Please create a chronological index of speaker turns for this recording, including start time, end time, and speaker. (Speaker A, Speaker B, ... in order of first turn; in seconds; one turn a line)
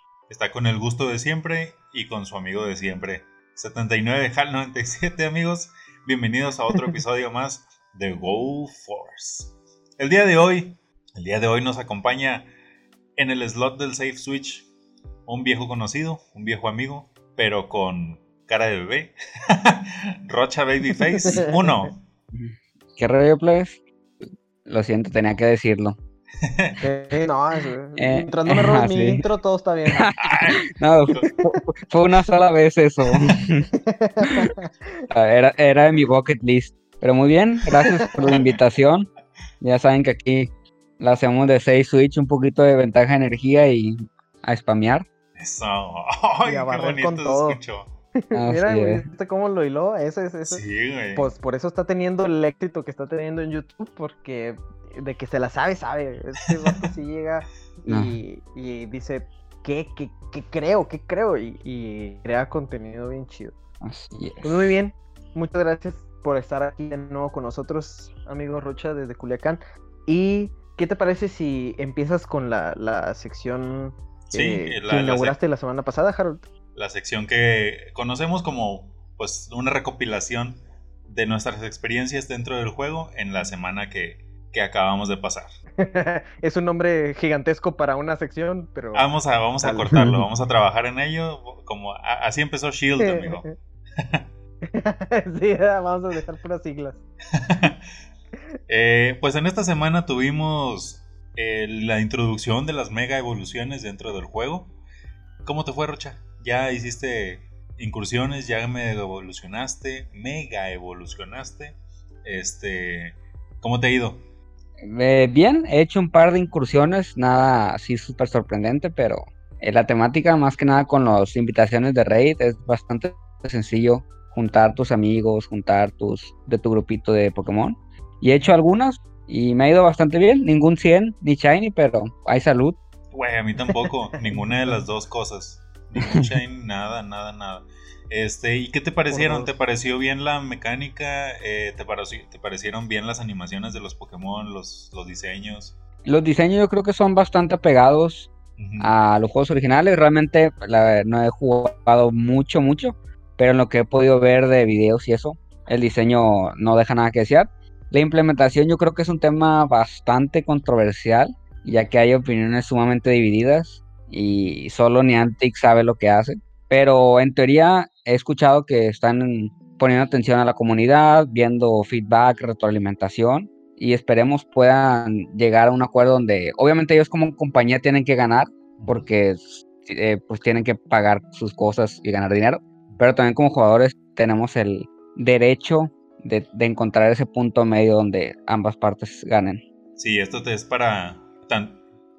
Speaker A: 0.3-12.5
Speaker A: 13.2-14.7
Speaker A: 15.2-22.0
Speaker B: 21.2-21.8
Speaker C: 22.3-23.8
Speaker C: 24.6-25.9
Speaker A: 26.4-26.8
Speaker B: 26.8-30.1
Speaker C: 28.0-29.2
Speaker C: 30.0-33.7
Speaker A: 30.2-31.4
Speaker B: 33.7-34.7
Speaker C: 35.1-39.1
Speaker B: 37.8-38.1
Speaker A: 38.2-38.6
Speaker C: 39.6-45.0
Speaker A: 45.4-47.9
Speaker B: 46.4-47.6
Speaker B: 48.2-50.6
Speaker C: 48.3-49.0
Speaker A: 50.4-51.3
Speaker B: 51.1-63.5
Speaker A: 56.5-56.8
Speaker C: 57.9-58.2
Speaker C: 63.8-64.7
Speaker B: 64.4-76.5
Speaker A: 74.3-75.4
Speaker A: 76.7-85.5
Speaker B: 85.8-89.1
Speaker A: 88.9-93.5
Speaker B: 89.6-90.0
Speaker C: 89.9-90.2
Speaker B: 93.0-93.5
Speaker B: 94.7-97.0
Speaker A: 97.3-97.8
Speaker A: 98.7-104.7
Speaker A: 105.4-114.2
Speaker C: 114.9-132.8
Speaker A: 133.1-145.8
Speaker B: 134.2-134.8
Speaker B: 139.1-139.5
Speaker C: 146.1-189.6
Speaker A: 148.6-148.9
Speaker A: 178.8-179.1
Speaker A: 190.0-191.8